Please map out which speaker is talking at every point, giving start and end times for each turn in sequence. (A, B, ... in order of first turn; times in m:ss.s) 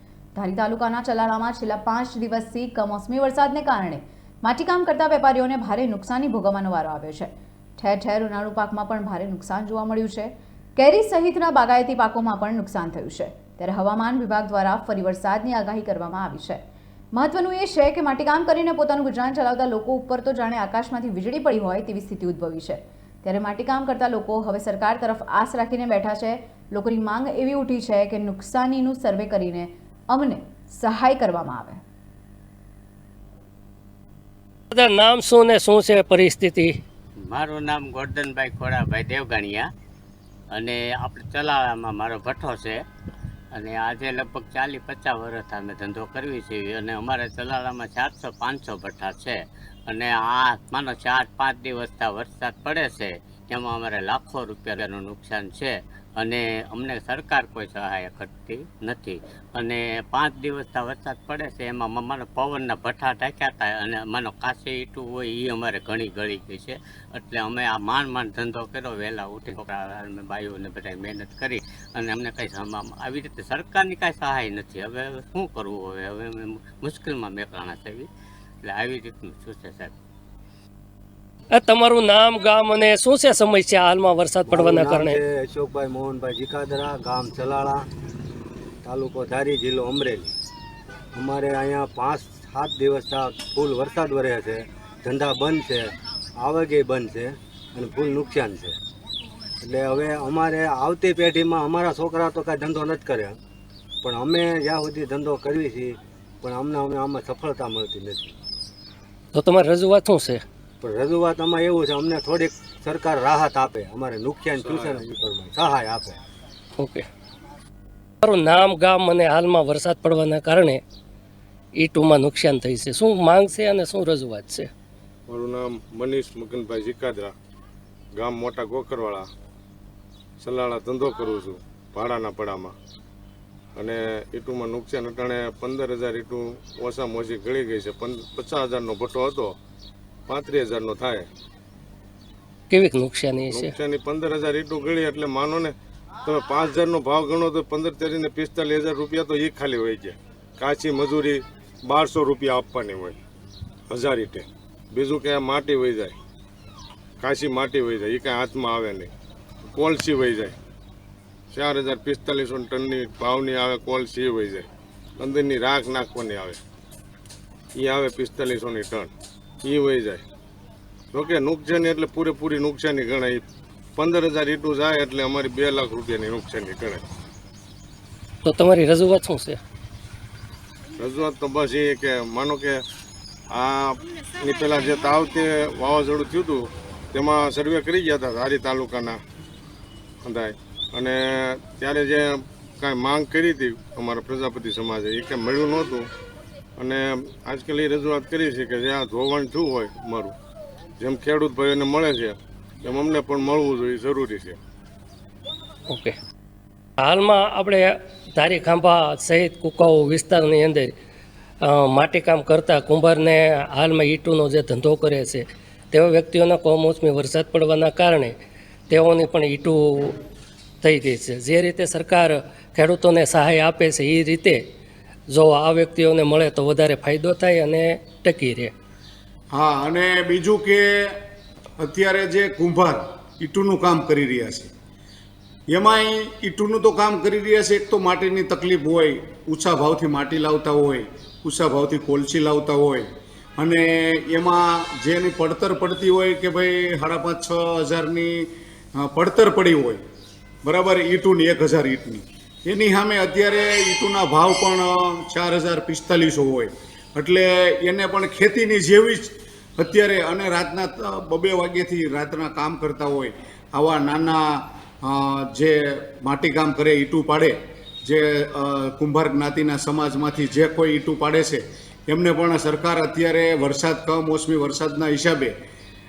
0:00.4-0:16.6 A
0:17.1-0:31.8 A
0:34.7-0:36.8 B
0:37.3-0:39.7 C
0:40.5-0:42.8 C
0:43.6-1:18.1 C
1:18.6-1:19.9 C
1:21.5-1:25.2 B
1:24.5-1:27.9 D
1:28.8-1:30.4 D
1:31.2-1:38.8 D
1:39.6-1:43.4 D
1:44.0-1:48.4 D
1:49.3-1:50.4 B
1:50.8-1:56.2 D
1:54.6-1:55.1 E
1:56.8-1:57.1 B
1:58.2-2:00.8 B
2:01.8-2:04.7 B
2:05.3-2:07.4 E
2:08.2-2:09.3 E
2:10.4-2:12.7 E
2:13.8-2:19.6 E
2:20.3-2:21.3 E
2:22.7-2:23.8 B
2:23.5-2:33.2 E
2:33.9-2:36.2 E
2:37.2-2:39.1 E
2:39.7-2:40.6 E
2:41.5-2:44.7 E
2:45.2-2:46.6 E
2:47.8-2:49.1 E
2:49.6-2:50.2 E
2:51.1-2:53.4 E
2:54.0-2:57.0 E
2:58.4-2:59.6 B
3:01.0-3:02.8 E
3:03.5-3:09.2 E
3:10.2-3:16.1 E
3:16.8-3:20.4 E
3:21.0-3:24.6 E
3:25.9-3:26.2 B
3:27.0-3:30.9 B
3:31.6-3:38.4 B
3:38.9-3:40.2 B
3:40.8-3:44.6 B
3:45.3-3:48.7 B
3:49.5-3:51.2 F
3:51.8-3:54.7 F
3:55.7-4:03.1 F
4:03.6-4:10.0 F
4:10.6-4:35.5 F